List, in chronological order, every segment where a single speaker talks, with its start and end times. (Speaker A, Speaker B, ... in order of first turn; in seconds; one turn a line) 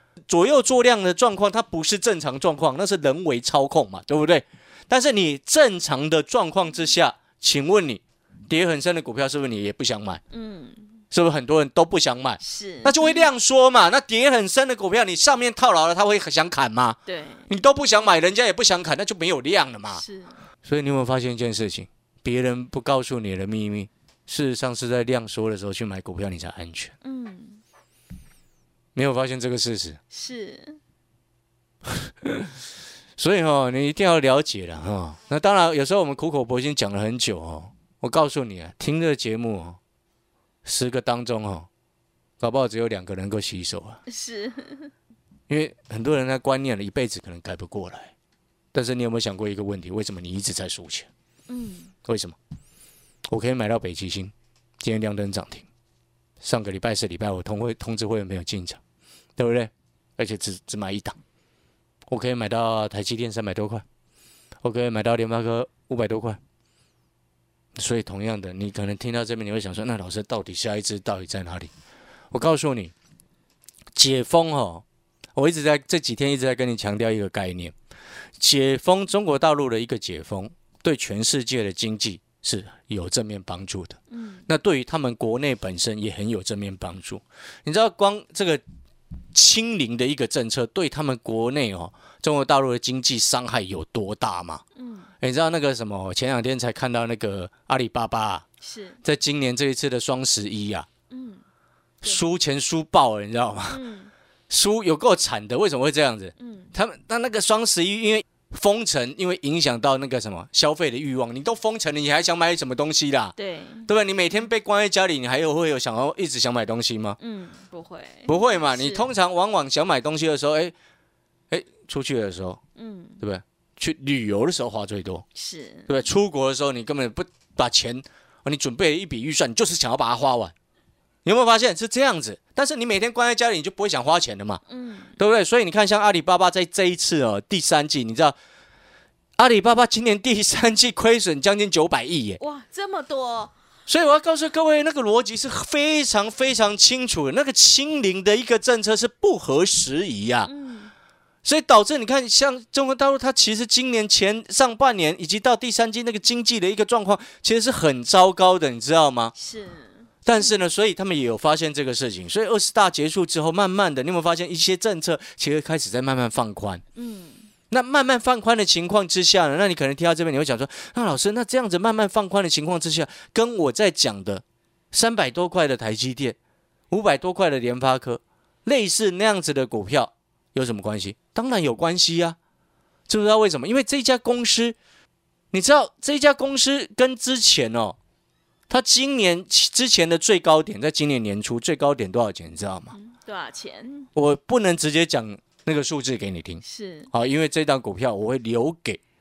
Speaker A: 0.3-10.2
Speaker B: 10.3-11.0
Speaker A: 11.1-20.0
Speaker B: 12.4-13.3
Speaker B: 17.1-17.5
Speaker B: 19.9-20.4
Speaker A: 20.6-26.9
Speaker B: 27.0-27.6
Speaker A: 28.9-30.0
Speaker B: 30.1-30.8
Speaker A: 31.9-32.5
Speaker A: 33.2-39.8
Speaker A: 40.6-41.7
Speaker A: 42.4-44.0
Speaker B: 44.1-44.9
Speaker A: 45.5-48.1
Speaker A: 48.7-51.1
Speaker B: 51.5-51.9
Speaker A: 52.0-52.4
Speaker A: 53.3-55.6
Speaker A: 56.4-58.8
Speaker A: 59.4-61.2
Speaker A: 62.1-63.8
Speaker A: 64.6-66.4
Speaker A: 67.8-71.7
Speaker A: 72.3-72.9
Speaker A: 73.9-74.8
Speaker A: 75.3-77.7
Speaker A: 78.4-88.6
Speaker B: 84.1-84.5
Speaker A: 89.3-94.6
Speaker B: 94.8-95.1
Speaker A: 95.2-98.4
Speaker B: 98.6-99.0
Speaker A: 99.0-100.9
Speaker B: 101.1-101.4
Speaker A: 102.0-103.8
Speaker B: 103.7-104.1
Speaker A: 104.5-113.3
Speaker B: 106.4-106.7
Speaker B: 113.3-113.9
Speaker A: 113.9-117.2
Speaker B: 117.2-119.1
Speaker A: 118.3-120.7
Speaker A: 121.5-122.6
Speaker B: 122.8-123.2
Speaker A: 123.2-125.2
Speaker B: 125.3-126.0
Speaker A: 125.9-130.5
Speaker A: 131.2-134.6
Speaker B: 134.7-135.2
Speaker A: 135.2-138.3
Speaker A: 139.4-142.4
Speaker B: 142.4-143.5
Speaker A: 143.9-150.5
Speaker B: 150.4-150.9
Speaker A: 151.4-159.3
Speaker B: 159.3-160.5
Speaker A: 160.2-166.8
Speaker B: 166.9-167.5
Speaker A: 167.7-176.3
Speaker A: 176.9-182.4
Speaker A: 183.1-184.8
Speaker A: 185.5-187.9
Speaker A: 188.7-192.9
Speaker B: 192.9-194.1
Speaker A: 194.1-199.0
Speaker B: 196.6-197.1